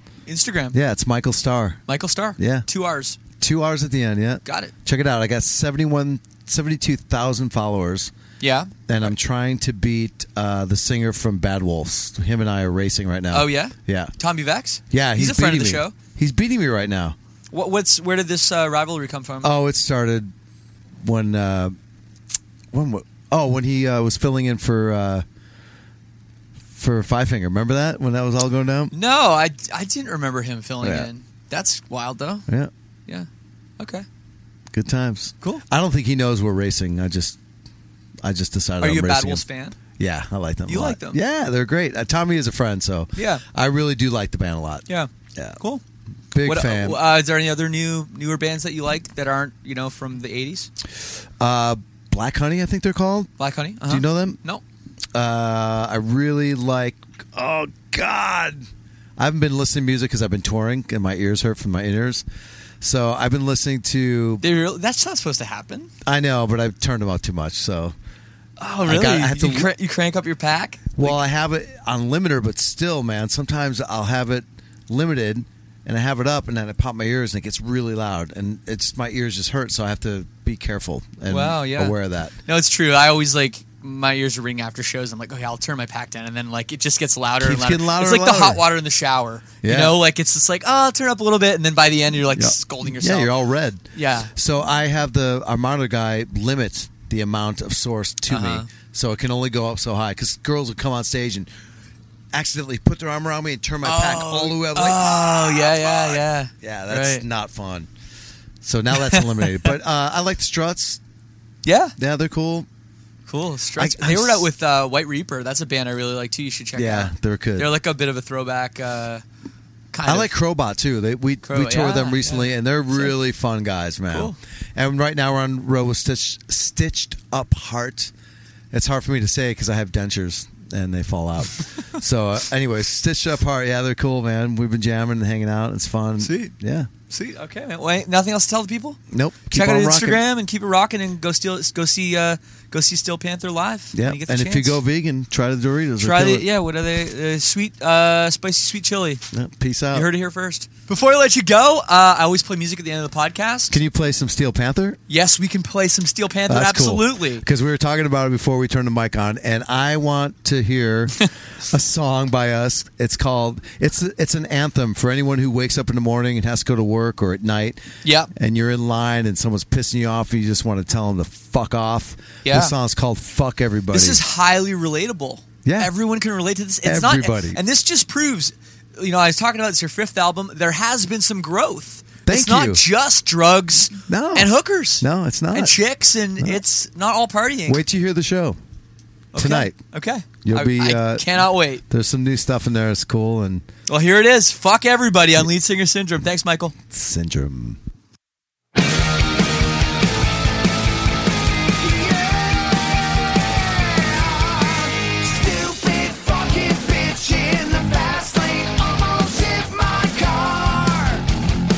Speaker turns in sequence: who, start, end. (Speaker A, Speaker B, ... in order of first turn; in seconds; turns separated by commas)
Speaker A: 0.2-0.8, Speaker B: 0.7-1.8, Speaker A: 1.9-3.2, Speaker B: 2.4-2.6, Speaker B: 3.4-8.1, Speaker A: 4.4-4.7, Speaker A: 8.4-9.1, Speaker B: 8.9-14.1, Speaker A: 13.3-15.9, Speaker B: 14.9-17.1, Speaker A: 17.5-19.5, Speaker B: 19.4-20.3, Speaker B: 21.0-21.7, Speaker B: 22.7-25.2, Speaker B: 26.7-28.9, Speaker A: 28.9-32.5, Speaker B: 30.8-31.1, Speaker A: 33.8-34.0, Speaker B: 34.7-37.4, Speaker B: 38.2-39.4, Speaker A: 38.8-39.8, Speaker B: 40.0-45.6, Speaker A: 40.7-41.2, Speaker A: 43.1-43.4, Speaker A: 44.9-45.8, Speaker B: 46.3-47.0, Speaker A: 46.4-50.7, Speaker B: 51.4-53.3, Speaker A: 53.4-54.6, Speaker B: 53.9-54.4, Speaker B: 55.1-58.6, Speaker B: 59.2-62.2, Speaker B: 62.8-64.4, Speaker A: 64.4-65.9, Speaker B: 66.0-67.9, Speaker A: 68.6-71.2, Speaker B: 68.8-69.7, Speaker B: 71.0-82.3, Speaker A: 81.3-94.3, Speaker B: 87.4-88.6, Speaker B: 89.6-90.0, Speaker B: 92.3-101.5, Speaker A: 98.3-98.7, Speaker B: 102.3-107.9, Speaker A: 103.8-107.2, Speaker B: 108.6-111.0, Speaker A: 108.9-109.7, Speaker A: 111.6-111.9, Speaker B: 112.0-112.7, Speaker A: 113.3-119.2, Speaker B: 113.8-114.5, Speaker B: 116.8-117.7, Speaker A: 119.9-120.3, Speaker B: 120.0-128.1, Speaker A: 121.4-123.1, Speaker A: 124.1-124.4, Speaker B: 128.7-136.9, Speaker A: 136.2-136.5, Speaker A: 137.1-139.0, Speaker B: 139.1-140.2, Speaker A: 139.5-144.8, Speaker B: 143.9-146.4, Speaker A: 146.0-149.2, Speaker B: 149.3-150.1, Speaker A: 149.9-153.8, Speaker B: 153.7-155.0, Speaker A: 155.1-157.4, Speaker B: 156.5-167.8, Speaker A: 168.0-168.3, Speaker B: 168.3-174.2, Speaker A: 172.4-172.7, Speaker A: 173.9-187.8, Speaker B: 175.6-175.9, Speaker B: 176.8-177.6, Speaker B: 182.2-182.8, Speaker B: 184.1-185.8, Speaker B: 187.7-188.6, Speaker A: 189.3-191.8, Speaker B: 189.3-189.8, Speaker B: 190.4-193.6, Speaker A: 193.9-196.7, Speaker B: 196.9-197.8, Speaker C: 201.8-211.3